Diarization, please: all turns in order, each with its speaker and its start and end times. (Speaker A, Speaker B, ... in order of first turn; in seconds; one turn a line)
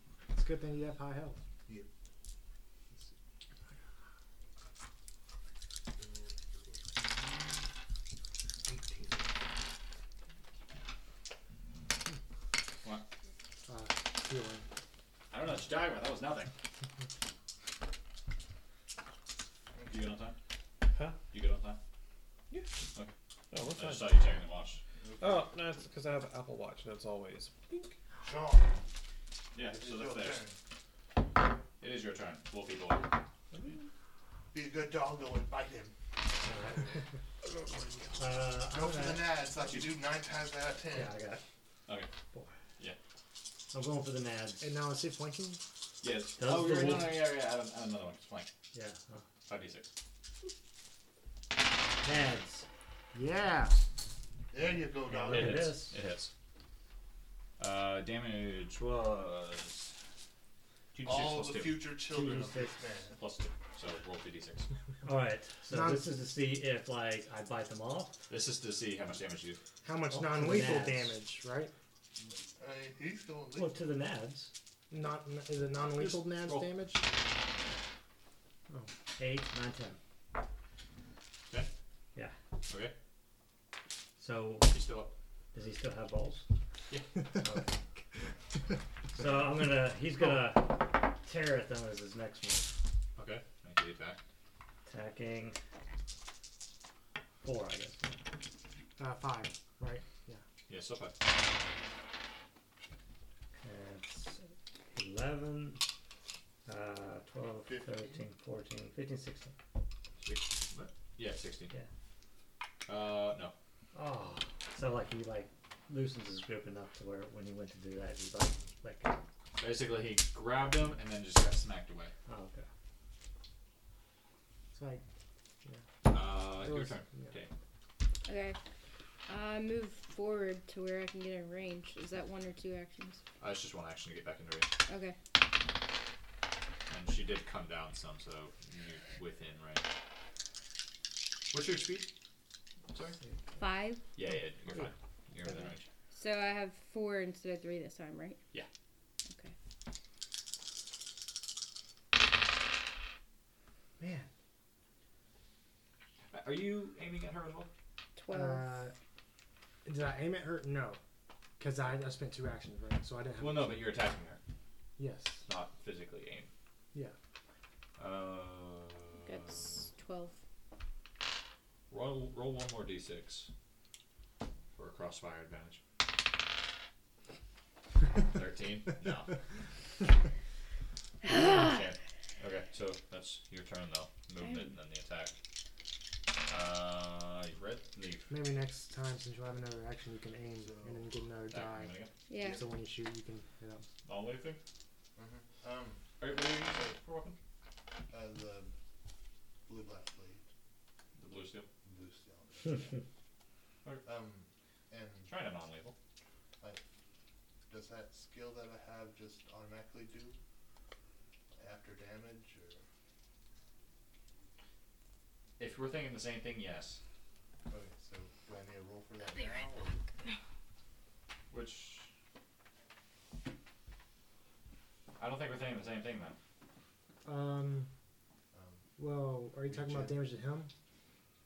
Speaker A: 0.3-1.4
Speaker B: 6.0-7.7
Speaker B: 8.7-9.4
Speaker A: 13.7-14.7
Speaker C: 15.3-16.5
Speaker B: 19.8-20.1
Speaker C: 19.9-20.4
Speaker D: 20.9-21.2
Speaker C: 21.3-21.8
Speaker D: 23.5-24.3
Speaker C: 23.7-24.8
Speaker B: 25.0-25.5
Speaker D: 25.2-28.0
Speaker B: 28.2-28.8
Speaker C: 29.5-30.4
Speaker B: 29.6-30.6
Speaker C: 31.8-33.1
Speaker E: 33.5-33.8
Speaker B: 34.5-36.0
Speaker E: 36.4-36.9
Speaker B: 37.9-41.2
Speaker E: 38.2-39.4
Speaker E: 40.9-41.4
Speaker E: 43.7-44.7
Speaker A: 44.6-45.6
Speaker C: 46.0-48.5
Speaker E: 46.4-47.2
Speaker E: 48.7-49.3
Speaker C: 49.5-49.9
Speaker E: 52.0-52.7
Speaker A: 53.1-53.8
Speaker B: 54.5-55.8
Speaker E: 55.0-56.0
Speaker C: 55.3-56.3
Speaker C: 57.6-60.0
Speaker C: 60.9-61.9
Speaker B: 61.0-63.2
Speaker E: 62.1-62.8
Speaker C: 63.2-64.7
Speaker E: 65.0-68.2
Speaker A: 65.7-66.1
Speaker C: 68.3-69.6
Speaker A: 69.8-71.7
Speaker E: 70.1-71.1
Speaker B: 72.2-73.8
Speaker E: 73.5-74.5
Speaker A: 74.9-77.1
Speaker C: 76.0-76.7
Speaker E: 79.2-80.0
Speaker C: 82.7-82.9
Speaker E: 84.2-84.7
Speaker C: 84.7-85.1
Speaker E: 85.5-86.5
Speaker E: 87.4-87.8
Speaker E: 89.1-92.7
Speaker C: 93.2-94.2
Speaker E: 94.8-95.6
Speaker E: 97.4-98.2
Speaker A: 99.0-100.4
Speaker C: 100.7-101.2
Speaker E: 103.6-105.8
Speaker E: 106.7-109.5
Speaker B: 107.7-108.2
Speaker C: 110.2-111.7
Speaker C: 112.9-113.5
Speaker E: 113.9-119.2
Speaker C: 119.6-122.1
Speaker E: 122.3-122.7
Speaker A: 124.7-125.0
Speaker C: 126.1-127.5
Speaker A: 126.4-127.3
Speaker F: 128.3-128.6
Speaker F: 129.3-133.2
Speaker C: 133.4-134.7
Speaker F: 134.9-135.2
Speaker C: 136.9-139.8
Speaker C: 141.5-142.1
Speaker C: 142.9-143.2
Speaker F: 143.6-144.0
Speaker C: 144.2-145.9
Speaker F: 146.1-148.4
Speaker F: 149.3-149.6
Speaker A: 154.0-154.3
Speaker C: 156.3-157.7
Speaker F: 158.2-158.8
Speaker A: 158.3-158.9
Speaker A: 159.8-161.0
Speaker A: 161.6-163.8
Speaker C: 163.4-164.4
Speaker A: 165.0-165.4
Speaker C: 165.5-166.5
Speaker C: 168.0-169.9
Speaker F: 169.2-170.4
Speaker C: 171.9-173.5
Speaker C: 174.7-175.8
Speaker C: 178.3-179.4
Speaker C: 181.2-185.4
Speaker F: 181.3-181.6
Speaker F: 184.4-184.7
Speaker C: 186.5-188.3
Speaker A: 188.3-191.9
Speaker B: 190.6-191.3
Speaker C: 191.5-192.1
Speaker F: 192.3-192.6
Speaker A: 192.5-193.9
Speaker C: 194.1-194.6
Speaker B: 195.2-196.9
Speaker C: 196.2-197.4
Speaker B: 198.1-198.7
Speaker B: 199.7-200.5
Speaker C: 201.2-201.7
Speaker B: 201.8-203.0
Speaker B: 204.0-205.3
Speaker C: 205.3-205.9
Speaker B: 207.7-210.4
Speaker B: 211.6-212.8
Speaker C: 215.6-217.0
Speaker B: 217.7-220.1
Speaker C: 221.5-222.1
Speaker C: 225.2-226.4
Speaker A: 227.2-227.9
Speaker B: 228.5-228.8
Speaker A: 229.0-230.7
Speaker B: 229.7-230.2